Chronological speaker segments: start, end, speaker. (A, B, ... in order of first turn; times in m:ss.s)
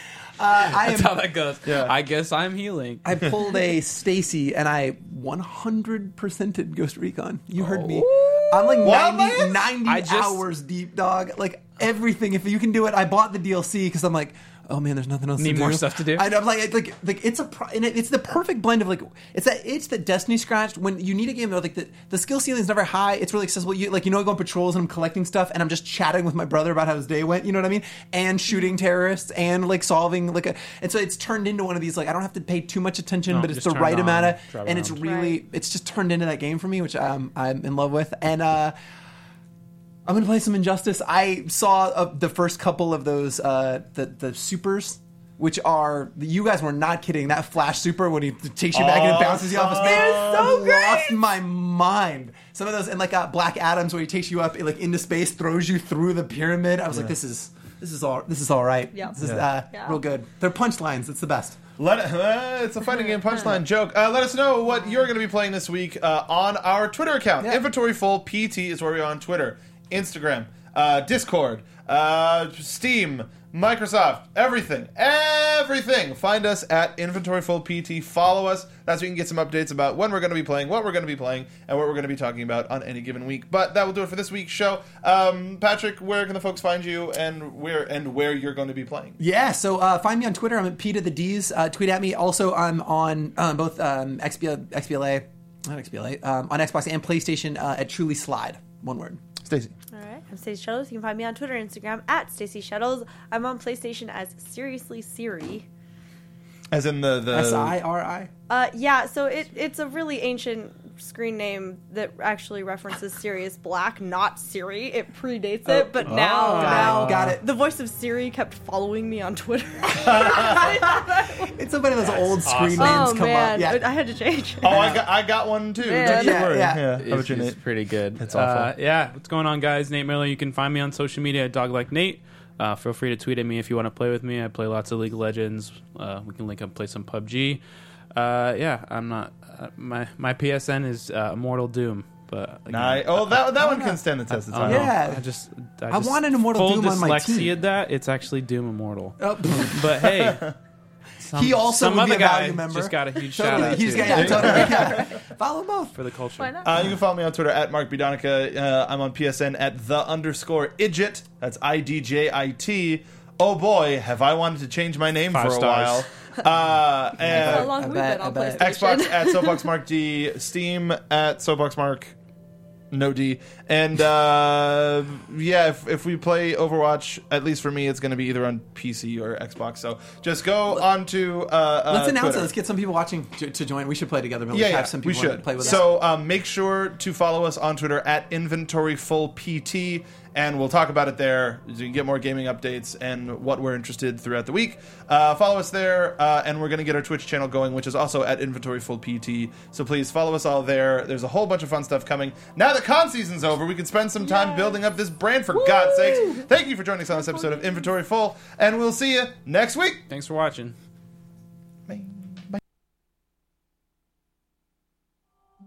0:00.4-0:01.2 A
0:00.6-0:03.1 B
0:01.6-0:01.9 C
0:03.0-0:38.7 A
0:07.6-0:08.9 B
0:08.8-0:09.7 C
0:09.8-0:10.4 B
0:15.4-0:16.3 B
0:33.3-0:35.0 B
0:35.0-0:35.4 D
0:40.0-1:01.6 A
0:48.7-0:51.1 C
0:49.9-0:50.1 B
0:59.2-0:59.4 C
0:59.7-1:00.0 D
1:01.8-1:29.2 C
1:29.2-1:39.2 A
1:39.4-1:39.7 C
1:39.9-1:45.7 D
1:46.7-1:47.8 C
1:47.3-1:48.3 A
1:48.5-2:01.6 D
1:55.6-1:57.4 A
1:56.0-1:57.3 B
2:00.0-2:00.8 C
2:00.3-2:03.8 A
2:02.0-2:03.1 B
2:02.8-2:05.0 D
2:04.6-2:07.6 C
2:04.6-2:05.0 A
2:05.8-2:06.4 D
2:06.0-2:06.9 A
2:07.0-2:17.6 B
2:08.2-2:08.7 C
2:18.1-2:23.4 B
2:22.7-2:24.9 C
2:23.6-2:24.0 A
2:24.3-2:30.5 B
2:24.6-2:25.2 A
2:25.9-2:27.6 A
2:29.2-2:30.1 A
2:30.2-2:30.5 C
2:31.2-2:35.0 B
2:31.3-2:36.0 A
2:34.0-2:34.8 D
2:34.1-2:35.0 C
2:35.9-2:36.8 B
2:36.4-2:36.7 D
2:36.6-2:47.8 C
2:45.3-2:46.0 B
2:47.2-2:48.8 A
2:47.3-2:49.6 D
2:48.6-2:52.1 C
2:52.9-3:02.5 C
3:01.9-3:05.9 A
3:04.5-3:30.0 C
3:24.2-3:24.8 D
3:25.8-3:26.4 D
3:30.1-3:30.8 B
3:31.9-3:32.6 C